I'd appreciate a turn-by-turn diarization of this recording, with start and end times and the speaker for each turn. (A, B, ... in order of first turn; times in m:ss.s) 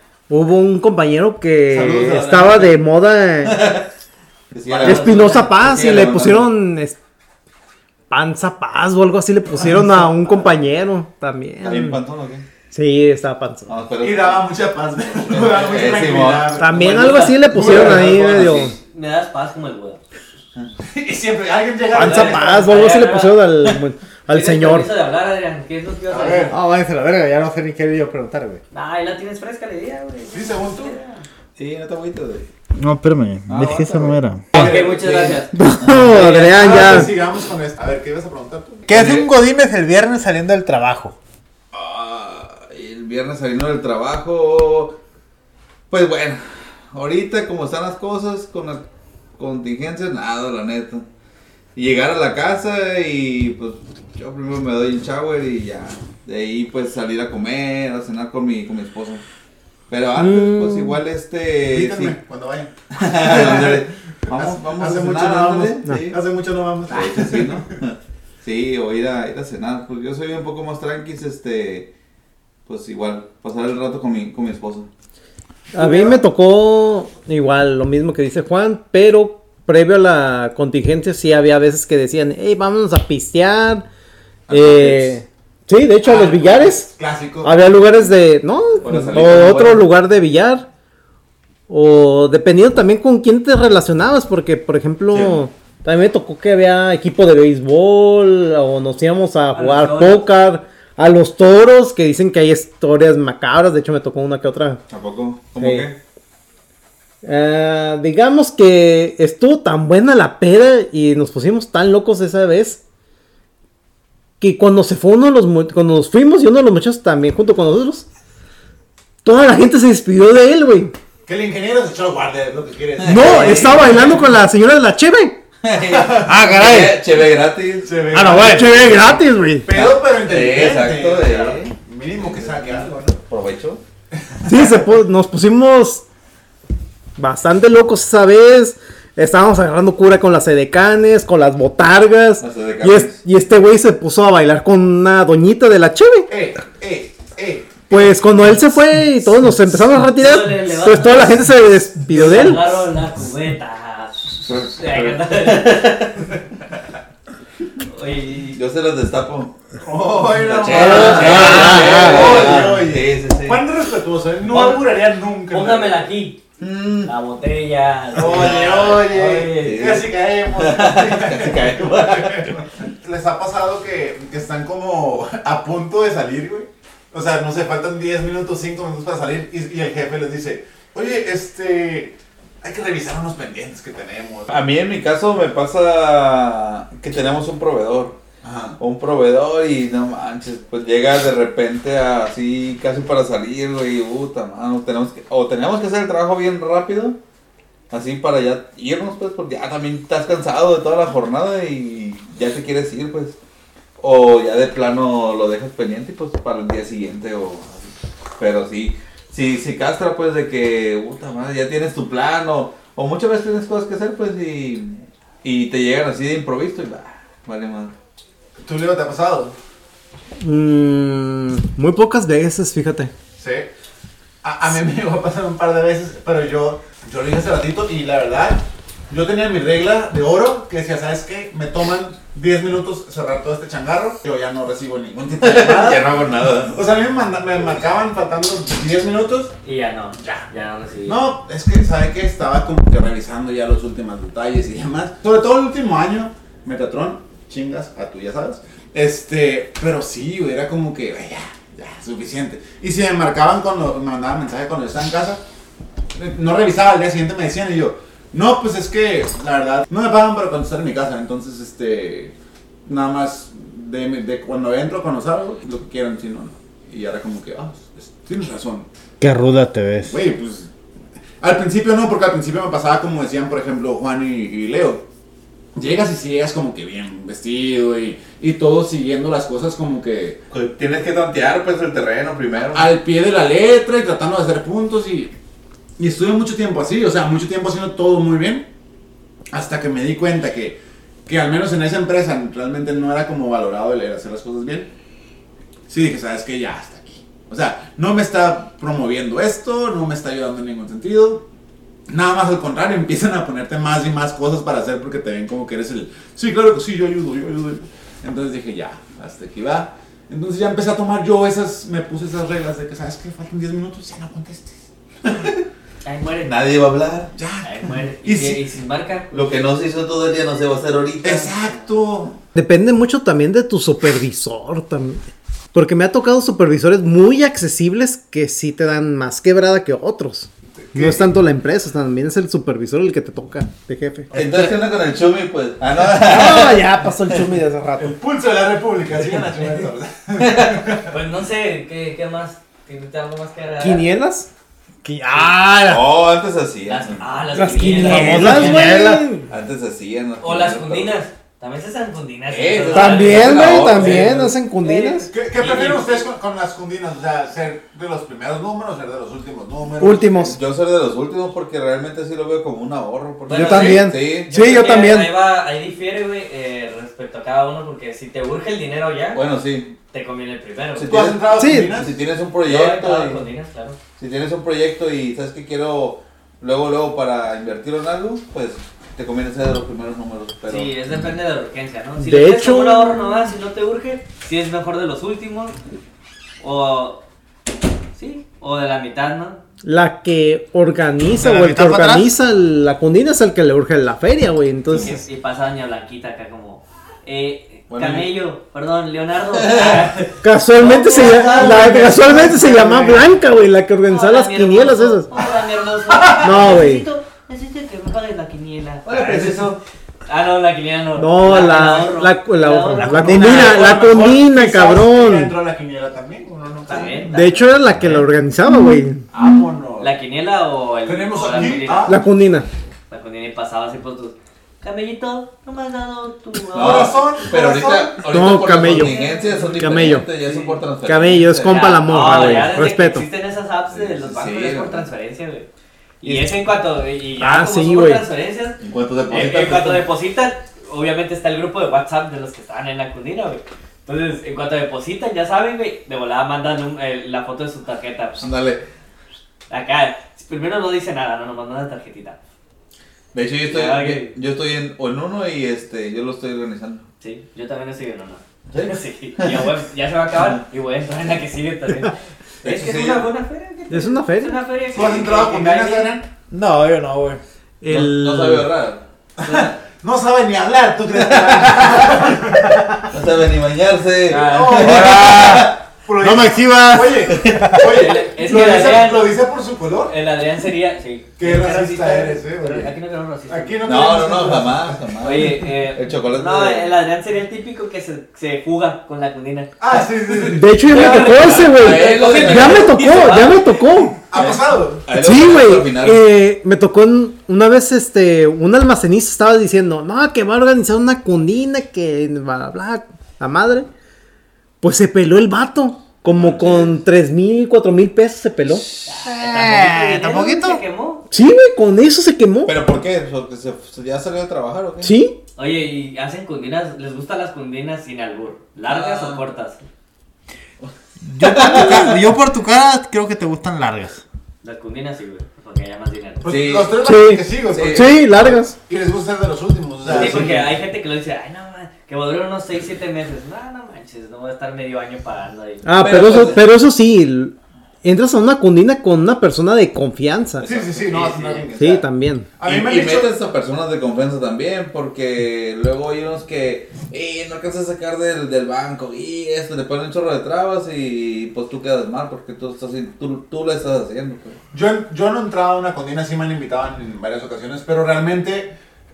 0:00.3-0:03.6 A
0:01.7-0:02.6 B
0:03.4-0:03.8 C
0:04.5-0:06.5 C
0:04.7-0:05.5 D
0:04.8-0:07.0 A
0:08.1-0:12.0 A
0:11.6-0:12.4 C
0:12.7-0:13.8 A
0:13.6-0:14.5 C
0:14.0-0:18.4 B
0:15.1-0:16.8 C
0:16.6-0:18.7 A
0:16.8-0:17.3 D
0:17.5-0:18.7 C
0:18.3-0:20.0 D
0:20.8-0:22.8 B
0:21.9-0:23.5 D
0:21.9-0:24.9 A
0:24.3-0:26.5 D
0:26.1-0:26.6 B
0:26.5-0:28.6 E
0:28.7-0:31.2 D
0:30.3-0:31.0 B
0:31.6-0:32.5 C
0:32.8-0:34.6 E
0:33.5-0:36.0 C
0:34.5-0:35.4 B
0:34.5-0:35.6 D
0:35.5-0:37.1 A
0:35.8-0:36.2 E
0:36.1-0:36.9 D
0:36.3-0:38.9 B
0:38.9-0:41.1 E
0:38.9-0:39.3 C
0:41.7-0:45.0 C
0:45.9-0:48.8 C
0:49.4-0:51.0 C
0:51.8-0:59.2 C
0:59.9-1:02.2 C
1:00.2-1:01.0 A
1:01.7-1:07.6 B
1:02.9-1:06.2 C
1:05.8-1:06.1 A
1:06.9-1:11.9 C
1:12.6-1:14.9 C
1:15.7-1:23.8 A
1:15.7-1:16.2 B
1:24.5-1:25.2 C
1:24.5-1:26.9 A
1:26.0-1:27.7 B
1:27.4-1:30.7 A
1:28.8-1:29.8 C
1:31.7-1:44.8 A
1:35.1-1:35.4 C
1:39.5-1:40.3 D
1:44.9-1:46.0 C
1:45.6-1:45.9 A
1:47.2-1:52.8 A
1:54.4-1:58.0 A
1:59.2-2:00.9 A
2:01.2-2:04.2 B
2:03.0-2:04.2 C
2:03.0-2:05.4 A
2:05.6-2:08.0 C
2:05.7-2:06.4 B
2:06.2-2:07.0 E
2:07.8-2:13.2 B
2:08.1-2:08.9 E
2:08.3-2:09.7 A
2:09.7-2:13.8 C
2:14.3-2:14.8 B
2:14.4-2:16.0 A
2:17.2-2:26.3 A
2:22.4-2:23.2 C
2:26.3-2:28.2 B
2:27.9-2:32.7 A
2:30.1-2:31.5 D
2:32.1-2:36.2 D
2:34.4-2:36.1 C
2:37.8-2:38.6 D
2:38.5-2:39.6 C
2:39.8-2:46.1 B
2:40.3-2:43.6 C
2:40.7-2:42.8 A
2:40.8-2:41.8 D
2:44.5-2:44.9 D
2:45.5-2:46.4 D
2:46.6-2:47.1 C
2:47.0-2:50.0 D
2:48.1-3:04.6 B
2:48.2-2:49.0 C
2:49.6-2:52.6 C
3:04.5-3:08.2 C
3:08.4-3:08.8 B
3:08.8-3:17.2 C
3:17.9-3:23.4 C
3:24.0-3:37.9 C
3:38.6-3:39.6 B
3:40.4-3:43.1 A
3:43.4-3:43.7 B
3:44.4-3:59.5 B
3:55.4-3:56.8 C
3:59.6-4:01.2 D
4:01.0-4:15.4 B
4:16.1-4:22.3 B
4:22.8-4:28.9 B
4:29.2-4:30.2 E
4:30.0-4:30.7 B
4:31.4-4:35.0 B
4:35.8-4:40.4 B
4:40.5-4:42.9 C
4:42.7-4:45.3 B
4:46.0-4:48.7 B
4:49.5-4:54.9 B
4:55.9-5:01.4 B
5:02.1-5:15.5 B
5:16.0-5:16.5 D
5:16.4-5:17.3 C
5:17.4-5:18.6 B
5:17.6-5:19.5 D
5:19.3-5:21.5 C
5:21.2-5:22.4 B
5:22.5-5:25.2 A
5:25.7-5:34.4 A
5:30.8-5:31.3 B
5:34.3-5:37.4 C
5:36.1-5:38.2 A
5:38.0-5:41.1 B
5:40.4-5:40.7 C
5:41.0-5:44.1 D
5:43.8-5:44.5 A
5:45.0-5:46.0 E
5:45.8-5:47.6 C
5:46.9-5:48.9 D
5:47.5-5:49.5 A
5:47.8-5:49.2 E
5:49.5-5:51.2 C
5:50.4-5:53.8 D
5:52.5-5:54.6 C
5:52.9-5:55.3 A
5:54.8-5:56.3 D
5:55.3-6:00.6 B
6:00.0-6:00.6 A
6:00.5-6:04.5 C
6:03.5-6:09.4 D
6:03.5-6:05.3 A
6:09.3-6:09.9 C
6:10.1-6:11.1 D
6:11.0-6:13.4 C
6:11.1-6:12.1 B
6:11.5-6:12.0 A
6:12.6-6:14.0 D
6:14.2-6:20.9 C
6:20.7-6:25.8 D
6:22.2-6:23.3 A
6:26.6-6:27.2 D
6:28.2-6:29.6 D
6:29.8-6:35.2 A
6:31.4-6:32.3 E
6:34.9-6:42.8 D
6:37.9-6:38.3 C
6:39.5-6:40.1 C
6:40.4-6:45.3 A
6:40.9-6:43.3 B
6:44.1-6:54.2 D
6:46.4-6:47.0 A
6:49.0-6:49.7 C
6:51.2-6:55.6 A
6:53.0-6:53.7 E
6:53.3-6:57.2 B
6:56.9-6:57.8 D
6:57.3-6:59.3 A
6:59.3-7:00.1 B
7:00.0-7:02.2 D
7:01.0-7:02.2 B
7:02.0-7:02.7 A
7:03.1-7:07.2 D
7:06.7-7:12.6 C
7:06.7-7:08.3 B
7:08.3-7:09.2 A
7:08.8-7:10.8 D
7:09.8-7:10.3 A
7:11.0-7:13.2 A
7:11.6-7:15.7 D
7:13.9-7:15.1 C
7:16.2-7:28.4 D
7:16.2-7:16.5 C
7:17.4-7:18.2 A
7:18.8-7:20.0 C
7:28.4-7:28.8 C
7:29.7-7:32.4 D
7:33.3-7:37.0 C
7:33.7-7:34.3 D
7:37.2-7:46.1 D
7:38.7-7:39.7 C
7:42.6-7:43.3 C
7:43.9-7:44.6 A
7:44.9-7:46.3 B
7:46.5-7:47.4 E
7:47.8-7:48.7 A
7:47.8-7:49.0 C
7:49.4-7:53.0 B
7:49.4-7:49.7 D
7:51.1-7:52.4 C
7:53.1-7:55.8 C
7:54.3-7:55.1 D
7:54.3-8:00.1 B
7:54.8-7:57.8 E
7:57.4-7:57.6 C
7:57.8-7:59.3 D
8:00.0-8:03.9 D
8:01.4-8:02.9 B
8:03.5-8:05.0 B
8:03.8-8:07.0 C
8:05.2-8:13.9 D
8:09.8-8:11.2 B
8:10.5-8:14.2 A
8:11.2-8:13.1 C
8:14.3-8:15.0 B
8:14.3-8:16.2 C
8:15.1-8:23.9 A
8:24.8-8:28.8 A
8:26.3-8:27.0 C
8:29.0-8:31.2 D
8:29.2-8:30.8 E
8:31.3-8:32.8 A
8:32.6-8:35.1 C
8:35.0-8:35.4 A
8:35.6-8:39.8 D
8:38.8-8:39.4 C
8:40.8-8:42.2 C
8:41.2-8:44.2 E
8:41.7-8:42.0 A
8:44.6-8:46.4 D
8:46.4-8:50.7 B
8:46.4-8:46.9 C
8:47.0-8:48.7 A
8:47.7-8:48.5 C
8:50.0-8:50.6 C
8:50.1-8:56.6 D
8:55.8-9:00.6 A
8:56.0-8:56.6 C
9:00.6-9:01.4 C
9:00.6-9:02.1 B
9:01.1-9:01.6 D
9:01.8-9:02.5 A
9:02.6-9:03.3 B
9:02.6-9:14.6 C
9:14.7-9:18.7 B